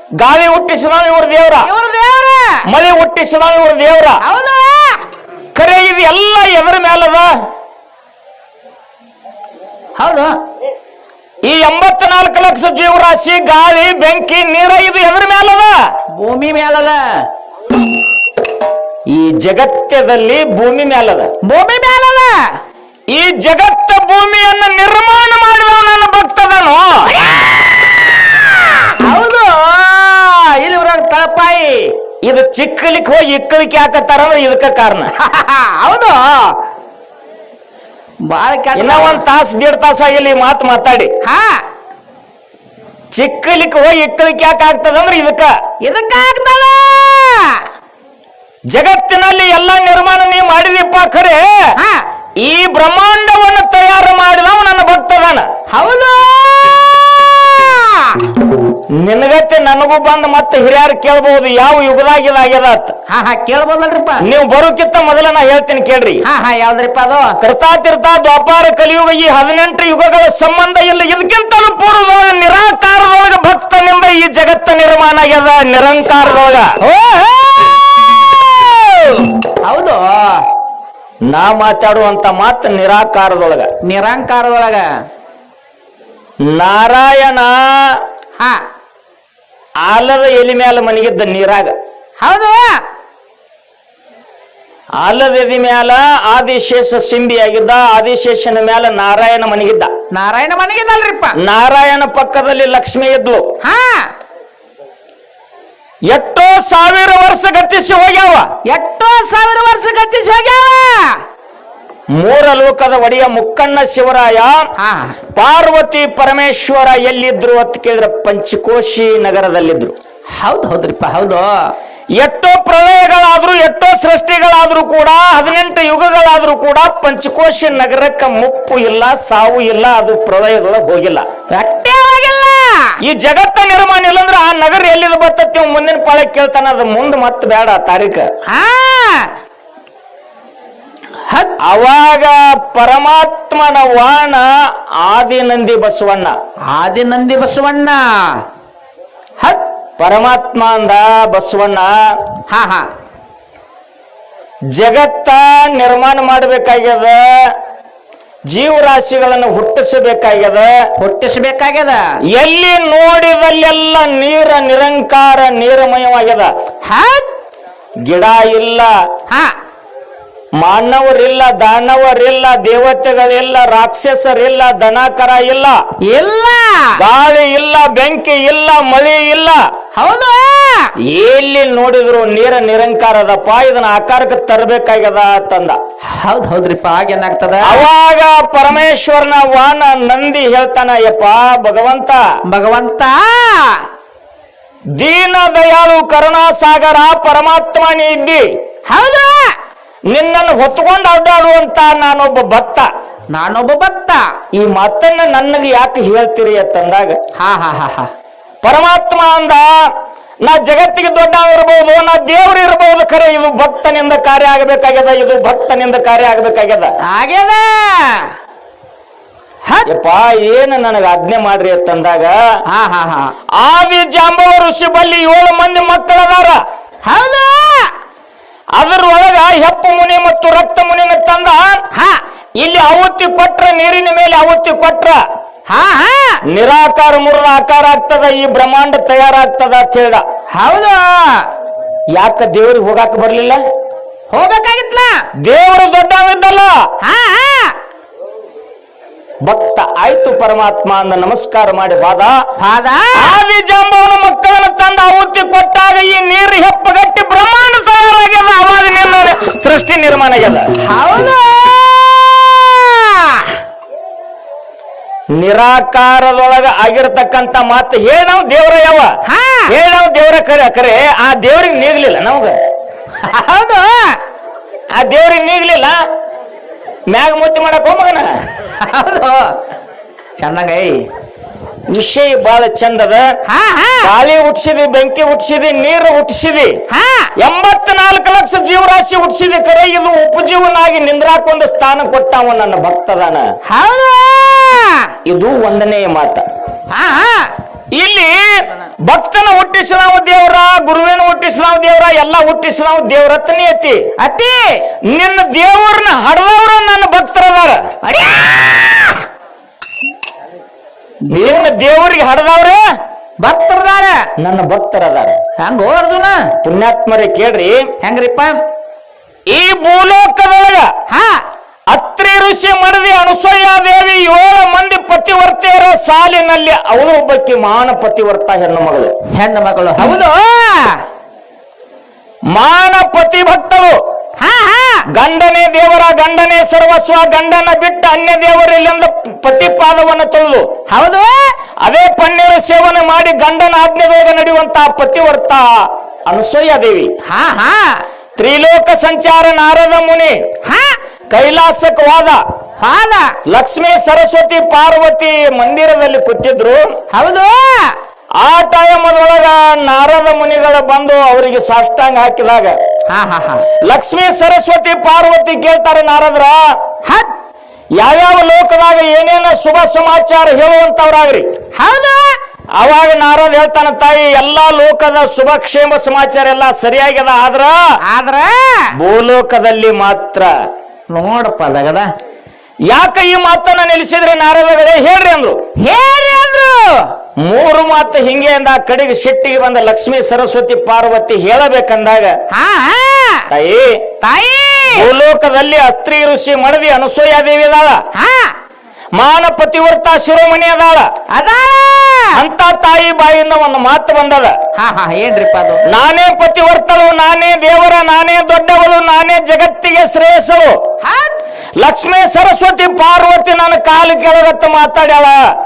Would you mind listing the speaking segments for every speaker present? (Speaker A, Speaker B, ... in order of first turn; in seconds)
Speaker A: 0.2-1.7, 2.6-4.2, 5.5-7.3, 11.4-15.8, 19.1-21.3, 23.1-27.4, 32.2-35.1, 38.8-41.1, 43.1-45.5, 48.7-51.8, 52.4-55.5, 58.9-62.9, 64.2-66.2, 67.4-76.8, 81.3-83.7, 86.4-88.0, 89.8-91.7, 95.0-99.9, 101.4-103.5, 106.1-108.5, 112.1-114.6, 115.3-119.9, 122.2-131.2, 133.0-138.3, 141.6-144.5, 145.0-146.4, 150.0-152.1, 154.7-157.5, 158.5-160.9, 162.3-166.5, 168.0-168.9, 170.6-175.8, 177.0-179.6, 181.0-185.8, 187.6-192.2, 195.0-198.5, 200.1-202.9, 204.5-207.2, 208.6-209.7, 210.4-216.9, 219.9-222.4, 223.5-226.6, 228.8-231.8, 232.6-235.2, 236.5-240.2, 242.1-243.6, 245.4-246.9, 249.4-252.3, 253.1-260.7, 265.4-269.1, 269.7-272.6, 274.9-276.0, 277.1-278.4, 281.9-283.3, 284.0-286.8, 287.4-293.5, 295.2-296.4, 297.9-304.1, 305.1-307.9, 311.3-312.8, 314.4-315.4, 316.6-317.9, 319.5-320.9, 321.9-329.1, 332.5-334.0, 335.1-340.7, 341.8-347.1, 348.4-350.4, 351.3-352.4, 353.5-356.9, 358.4-362.8, 363.8-366.8, 368.0-371.5, 372.8-377.8, 378.9-380.5, 382.9-385.6, 387.4-392.4, 393.5-394.1, 394.9-398.0, 399.1-401.1, 402.3-404.6, 405.9-410.8, 411.8-415.4
Speaker B: 1.6-2.6, 4.2-5.0, 10.0-10.4, 16.1-17.3, 21.4-22.5, 27.2-31.9, 35.2-36.6, 38.2-39.2, 41.2-41.6, 45.8-47.6, 51.8-52.1, 55.7-58.4, 63.1-64.2, 66.2-67.4, 76.8-80.5, 83.8-84.9, 88.4-88.6, 92.2-92.8, 100.1-101.3, 103.6-104.1, 108.7-111.2, 114.8-115.2, 120.4-121.7, 131.5-132.9, 138.5-139.3, 141.2-141.5, 146.7-148.4, 152.5-152.9, 161.0-162.0, 166.8-167.3, 169.3-169.5, 176.0-176.9, 179.9-180.9, 186.0-187.9, 192.5-193.9, 198.9-199.6, 203.3-204.3, 207.4-208.1, 217.0-218.3, 222.7-223.3, 227.0-227.9, 231.9-232.2, 235.7-236.4, 240.5-241.5, 244.3-245.2, 247.0-247.8, 252.6-253.3, 260.8-263.6, 269.3-269.7, 273.1-274.2, 278.6-279.6, 280.4-281.1, 283.5-284.1, 286.9-287.3, 293.7-295.1, 296.9-297.5, 304.2-304.8, 308.0-309.2, 311.3-311.6, 313.4-314.2, 315.6-316.5, 318.0-318.6, 321.1-321.4, 329.3-331.0, 334.4-335.0, 340.9-341.5, 347.2-348.0, 350.6-351.0, 352.8-353.4, 357.1-358.0, 363.1-363.6, 367.0-367.3, 371.8-372.4, 378.1-378.9, 381.1-382.1, 385.8-387.1, 392.5-393.5, 394.2-395.1, 398.1-398.5, 401.3-402.4, 404.8-405.8, 411.0-411.4